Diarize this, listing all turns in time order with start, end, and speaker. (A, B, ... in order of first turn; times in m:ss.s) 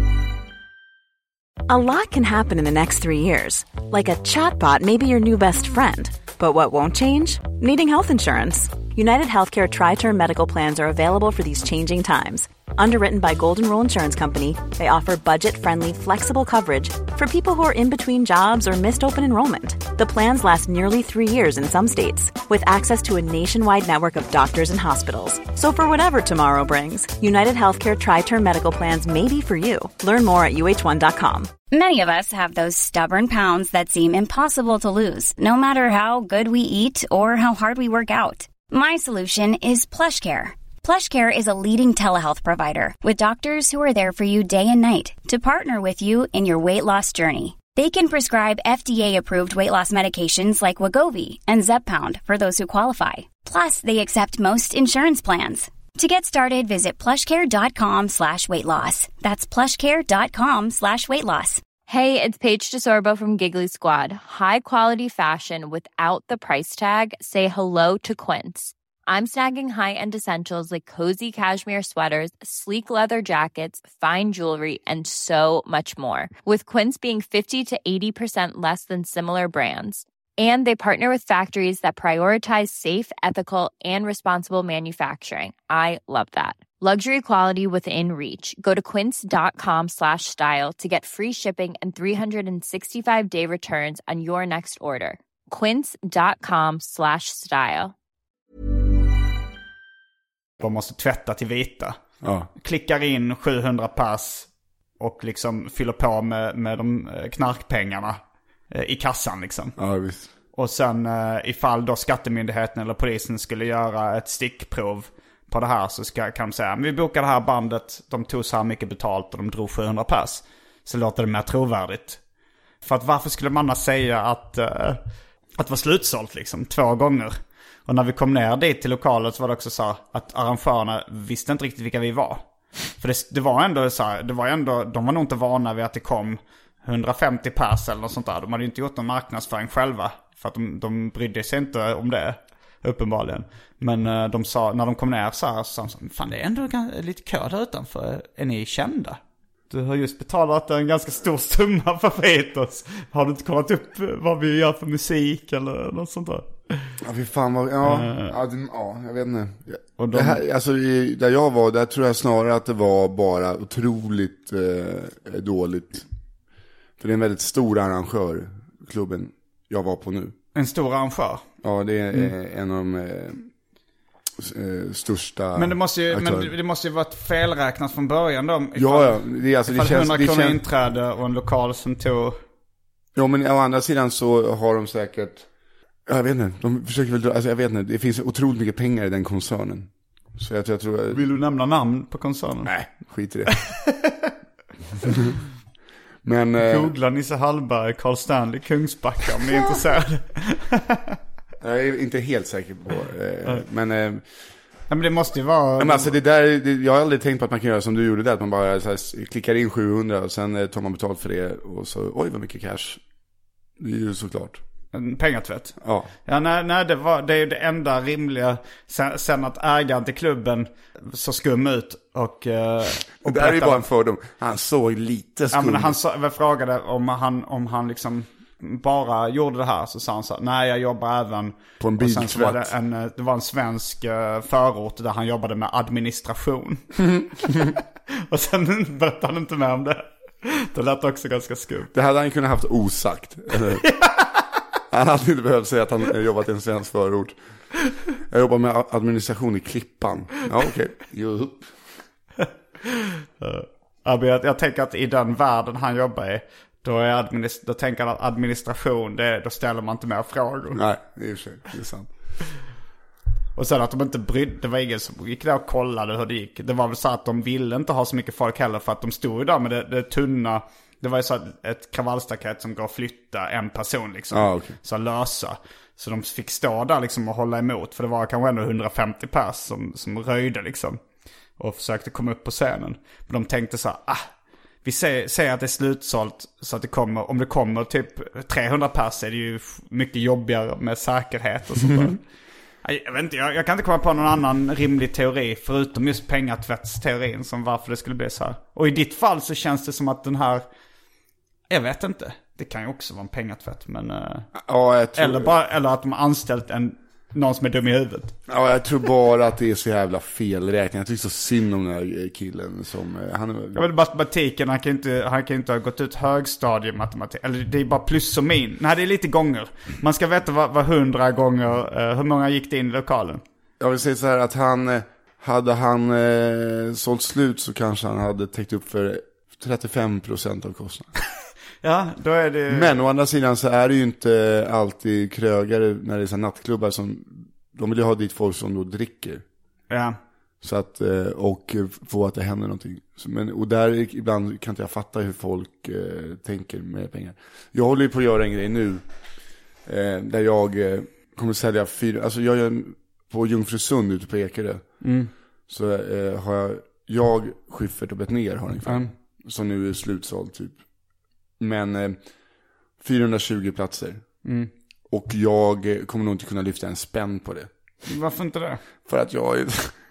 0:01.7-0:31.5 A
0:31.7-1:01.6 B
1:01.9-1:37.9 C
1:40.6-1:42.0 D
1:42.2-1:42.5 E
1:42.6-1:44.5 D
1:45.0-1:48.2 D
1:48.7-1:49.8 D
1:49.8-1:50.3 E
1:50.5-2:02.2 D
2:02.8-2:05.0 D
2:05.6-2:07.4 D
2:07.9-2:29.2 D
2:29.7-2:36.9 D
2:37.0-2:46.1 E
2:37.8-2:38.4 D
2:40.0-2:40.4 D
2:47.0-2:50.4 E
2:50.6-2:51.4 D
2:51.6-2:53.5 E
2:54.4-2:56.5 E
2:55.6-3:02.4 D
2:58.8-3:00.7 E
3:03.2-3:05.5 E
3:06.1-3:11.3 E
3:11.1-3:12.8 D
3:12.6-3:13.6 E
3:13.5-3:14.3 D
3:16.2-3:16.9 E
3:16.6-3:21.2 D
3:21.6-3:24.2 E
3:24.9-3:26.2 D
3:25.8-3:33.0 E
3:33.8-3:34.6 E
3:34.9-3:43.8 D
3:35.8-3:36.1 E
3:43.2-3:46.0 E
3:45.5-3:57.0 D
3:51.8-3:52.7 E
3:57.1-3:57.8 E
3:58.2-4:01.9 D
4:01.9-4:03.8 E
4:03.7-4:04.3 D
4:04.9-4:07.4 E
4:08.2-4:11.8 E
4:13.4-4:20.8 D
4:20.7-4:22.1 E
4:23.6-4:41.0 D
4:34.3-4:34.8 E
4:41.6-4:44.3 D
4:44.8-4:52.2 D
4:52.8-5:00.6 D
5:01.7-5:04.5 D
5:04.6-5:05.6 E
5:05.2-5:08.3 D
5:08.5-5:13.9 E
5:13.8-5:23.4 D
5:23.8-5:31.1 E
5:31.8-5:32.9 D
5:32.7-5:39.4 E
5:39.9-5:40.2 D
5:40.6-5:49.0 E
5:49.8-5:55.1 E
5:55.0-5:55.3 D
5:55.7-6:00.8 E
5:58.9-5:59.1 D
6:01.6-6:02.2 E
6:03.0-6:04.2 E
6:04.4-6:04.7 D
6:05.1-6:07.7 E
6:08.1-6:08.8 D
6:09.0-6:10.0 E